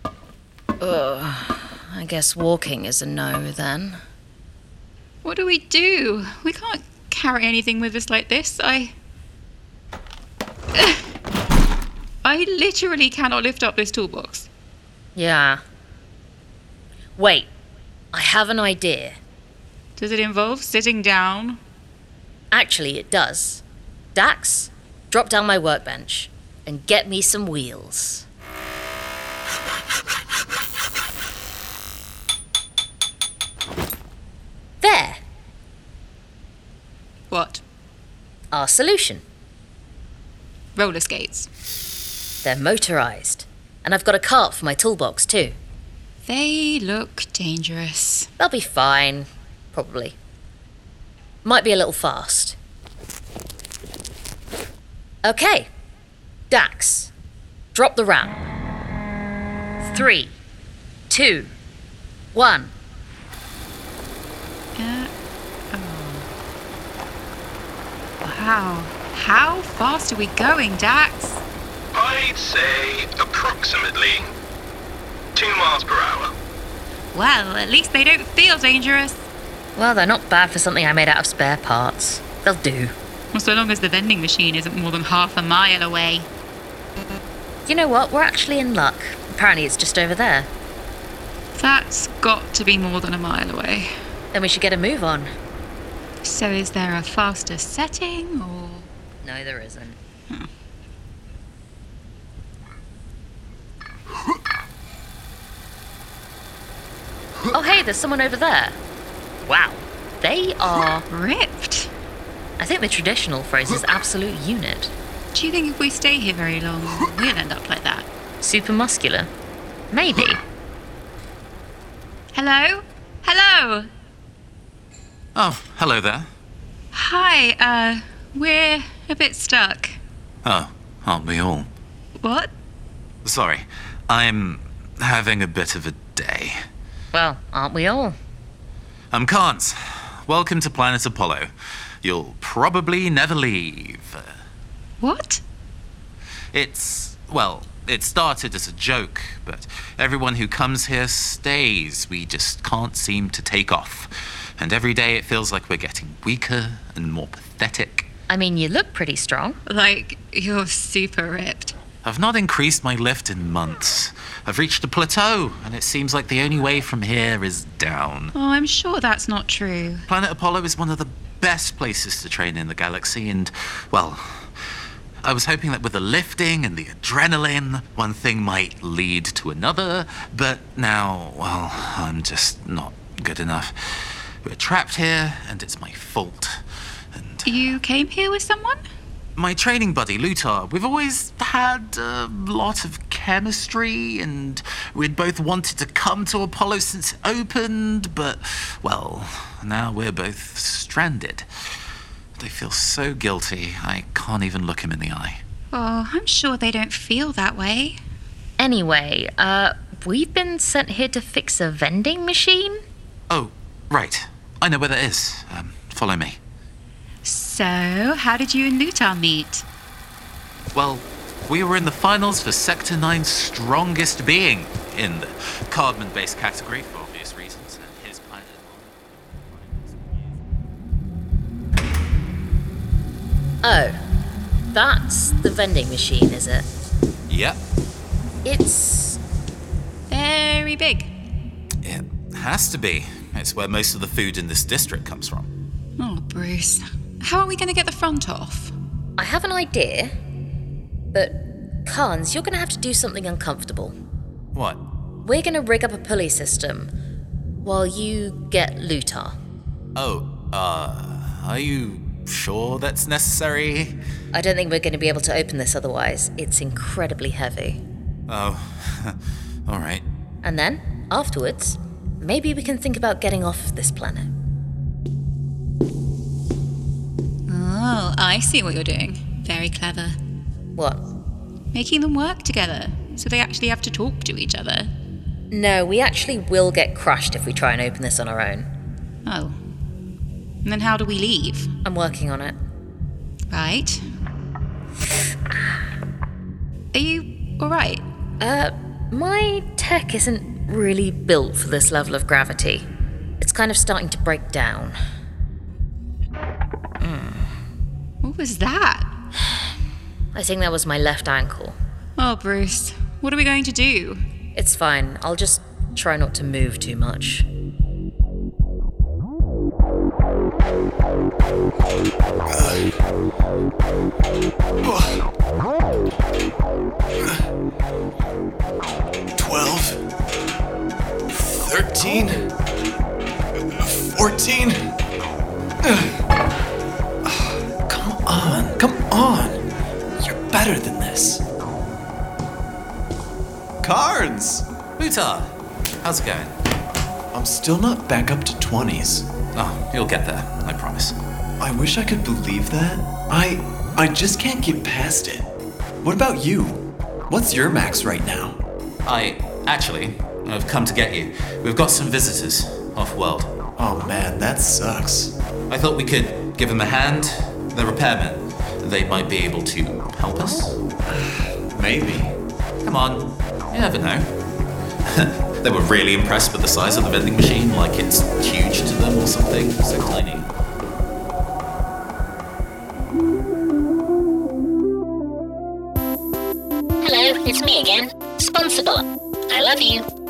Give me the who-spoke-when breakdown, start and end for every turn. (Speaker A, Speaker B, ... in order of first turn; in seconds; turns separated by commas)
Speaker A: 0.8-4.0, Speaker B: 5.2-8.9, Speaker B: 10.7-11.0, Speaker B: 12.2-14.5, Speaker A: 15.2-15.6, Speaker A: 17.2-17.5, Speaker A: 18.1-19.2, Speaker B: 20.0-21.6, Speaker A: 22.5-23.6, Speaker A: 24.1-28.2, Speaker A: 34.8-35.2, Speaker B: 37.3-37.6, Speaker A: 38.5-39.2, Speaker B: 40.8-41.5, Speaker A: 42.4-45.6, Speaker B: 46.2-48.3, Speaker A: 48.4-50.1, Speaker A: 51.4-52.6, Speaker A: 55.2-55.7, Speaker A: 56.5-57.1, Speaker A: 57.8-58.5, Speaker A: 59.8-60.3, Speaker A: 61.1-61.5, Speaker A: 62.3-62.7, Speaker B: 64.8-65.1, Speaker B: 65.7-66.3, Speaker B: 68.2-71.4, Speaker C: 71.9-74.3, Speaker C: 75.3-76.3, Speaker B: 77.1-79.2, Speaker A: 79.8-82.9, Speaker B: 83.3-86.3, Speaker A: 87.7-90.5, Speaker B: 91.5-93.9, Speaker A: 94.3-95.3, Speaker B: 96.2-98.9, Speaker A: 99.2-100.0, Speaker A: 107.5-108.8, Speaker A: 109.4-111.1, Speaker B: 111.1-111.9, Speaker A: 112.6-114.9, Speaker B: 115.3-118.1, Speaker A: 118.4-119.3, Speaker A: 119.9-120.4, Speaker B: 122.3-123.9, Speaker D: 125.3-126.3, Speaker B: 126.9-130.0, Speaker D: 130.4-131.7, Speaker B: 132.2-132.5, Speaker D: 133.2-136.6, Speaker A: 137.1-138.2, Speaker D: 139.1-141.5, Speaker D: 142.0-144.4, Speaker B: 145.0-145.4, Speaker D: 146.5-158.1, Speaker A: 158.3-159.6, Speaker B: 159.7-161.7, Speaker D: 162.0-168.3, Speaker B: 168.3-170.1, Speaker D: 170.1-174.5, Speaker D: 175.2-186.6, Speaker D: 187.1-187.7, Speaker B: 187.4-188.8, Speaker D: 189.3-201.5, Speaker D: 202.4-205.4, Speaker B: 205.7-208.0, Speaker A: 208.6-212.8, Speaker D: 213.3-216.4, Speaker B: 217.2-219.6, Speaker D: 220.7-230.4, Speaker A: 233.6-234.0, Speaker A: 234.7-236.7, Speaker D: 237.3-237.6, Speaker A: 238.4-239.2, Speaker B: 240.1-241.1, Speaker D: 241.8-245.5, Speaker B: 246.0-248.7, Speaker A: 249.2-250.2, Speaker A: 251.1-253.9, Speaker D: 254.5-254.8, Speaker A: 255.2-256.9, Speaker A: 257.6-259.4, Speaker D: 259.9-264.0, Speaker A: 264.3-267.8, Speaker D: 268.3-270.0, Speaker A: 270.4-274.3, Speaker B: 277.5-280.2, Speaker A: 280.8-281.0, Speaker B: 281.7-284.9, Speaker A: 285.5-288.7, Speaker B: 289.2-289.6, Speaker B: 290.6-291.7, Speaker A: 291.8-292.6, Speaker B: 293.5-294.0, Speaker B: 296.9-298.0, Speaker A: 298.4-302.9, Speaker A: 303.4-305.0, Speaker A: 307.0-307.5, Speaker B: 308.2-309.1, Speaker A: 310.3-311.8, Speaker B: 312.2-314.2, Speaker A: 314.6-317.4, Speaker E: 322.5-322.9, Speaker E: 324.8-325.2, Speaker E: 329.3-330.0, Speaker E: 331.3-332.5, Speaker E: 333.6-334.9, Speaker E: 335.8-336.1, Speaker E: 337.2-339.6, Speaker E: 340.2-341.4, Speaker E: 343.8-344.7, Speaker D: 345.0-346.5, Speaker E: 347.3-349.3, Speaker D: 349.5-351.2, Speaker E: 351.6-355.5, Speaker E: 356.0-358.6, Speaker D: 359.1-363.5, Speaker E: 363.8-365.3, Speaker D: 365.7-370.8, Speaker E: 371.7-372.4, Speaker D: 372.8-374.3, Speaker D: 375.1-380.5, Speaker F: 387.0-390.0